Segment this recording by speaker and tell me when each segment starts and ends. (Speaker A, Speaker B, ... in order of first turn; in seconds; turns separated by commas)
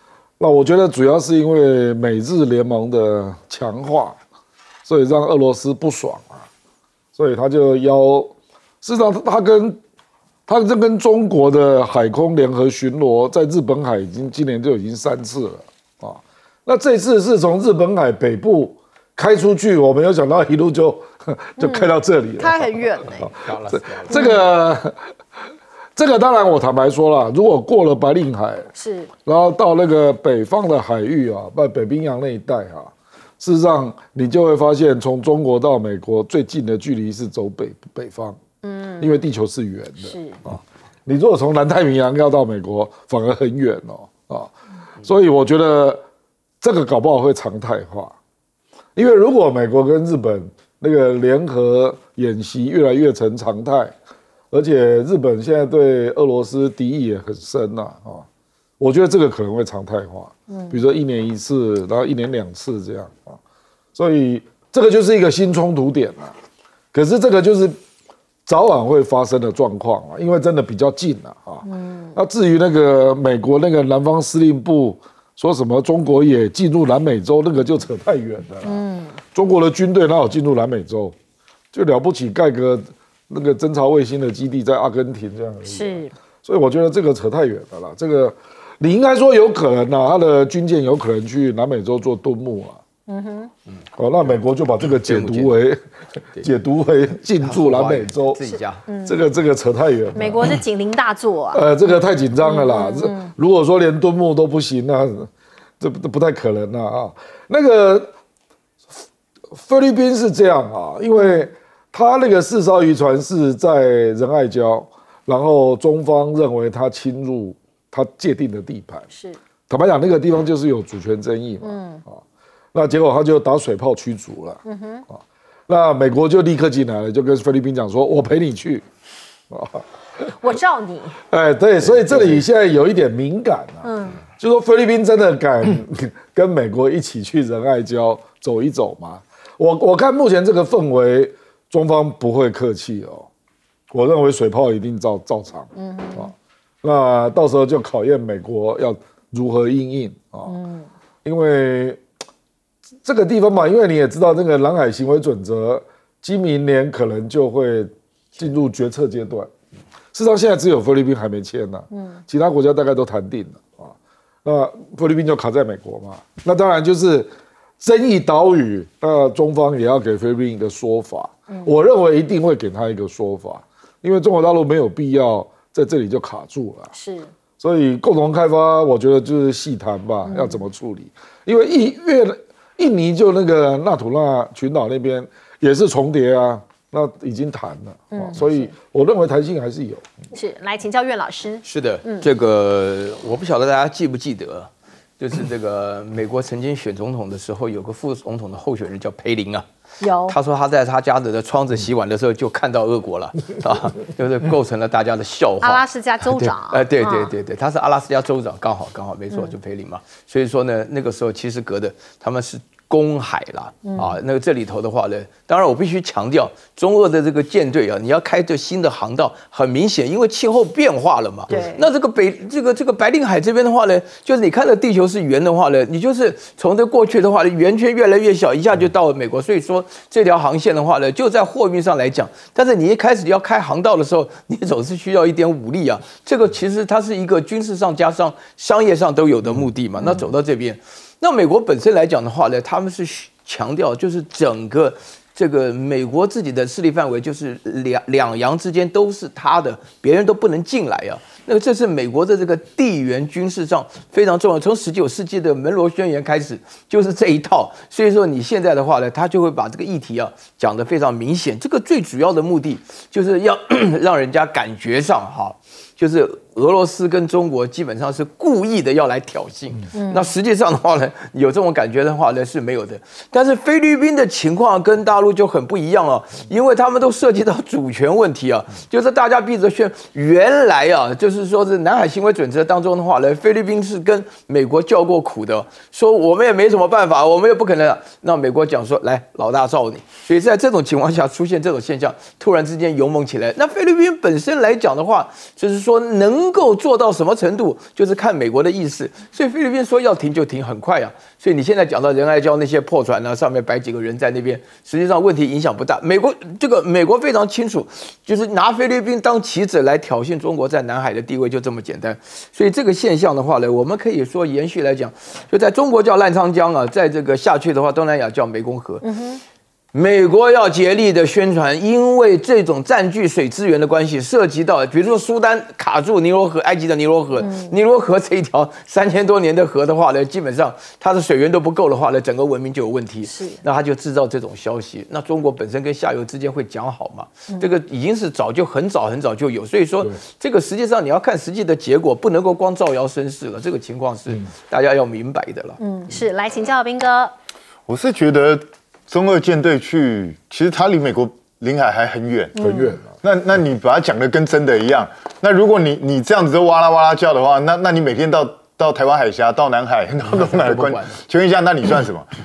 Speaker A: 0.4-4.2, Speaker A: 4.8-6.5, Speaker A: 7.2-9.8, Speaker A: 10.5-25.0, Speaker B: 21.6-23.3, Speaker C: 23.4-24.1, Speaker B: 24.1-24.4, Speaker A: 26.0-28.7, Speaker B: 28.8-29.1, Speaker A: 29.3-38.4, Speaker B: 38.6-39.1, Speaker A: 39.0-44.5, Speaker B: 40.0-40.4, Speaker A: 45.0-46.0, Speaker A: 46.6-48.1, Speaker A: 49.0-53.9, Speaker A: 54.5-58.3, Speaker A: 58.8-63.4, Speaker B: 60.5-60.8, Speaker A: 64.0-66.3, Speaker A: 66.9-67.8, Speaker A: 68.5-81.2, Speaker B: 71.6-72.2, Speaker B: 78.7-79.2, Speaker A: 81.7-92.8, Speaker B: 85.7-86.1, Speaker B: 93.1-93.5, Speaker A: 94.0-95.8, Speaker C: 94.8-95.5, Speaker A: 96.4-98.4, Speaker C: 97.4-98.8, Speaker B: 98.5-99.2, Speaker A: 99.1-100.6, Speaker B: 100.2-101.6, Speaker A: 101.5-108.1, Speaker B: 102.4-103.3, Speaker A: 109.5-119.1, Speaker B: 111.1-111.5, Speaker B: 119.1-119.4, Speaker A: 119.7-122.2, Speaker B: 121.6-122.0, Speaker A: 122.7-128.8, Speaker B: 124.7-125.1, Speaker A: 129.5-129.8, Speaker B: 130.4-131.2, Speaker A: 131.3-143.3, Speaker C: 131.9-132.4, Speaker B: 133.8-134.2, Speaker A: 143.9-146.3, Speaker B: 145.8-146.3, Speaker A: 146.8-150.6, Speaker B: 150.5-150.9, Speaker A: 151.2-152.0, Speaker A: 153.0-159.5, Speaker A: 160.1-163.9, Speaker B: 161.9-162.2, Speaker A: 164.4-176.9, Speaker B: 176.9-177.3, Speaker A: 177.6-190.0, Speaker B: 180.2-180.6, Speaker B: 188.1-188.4, Speaker B: 190.3-192.3, Speaker C: 191.7-199.7, Speaker B: 200.0-200.4, Speaker C: 200.3-319.0, Speaker B: 205.6-207.3, Speaker B: 213.8-214.2, Speaker B: 221.5-221.8, Speaker B: 269.9-270.3, Speaker B: 319.0-319.4, Speaker C: 319.9-345.8, Speaker B: 327.4-327.8, Speaker B: 333.3-333.6, Speaker B: 345.8-347.3, Speaker D: 347.9-352.6, Speaker B: 352.6-353.0, Speaker A: 352.6-353.1, Speaker D: 353.2-362.3, Speaker C: 360.2-361.2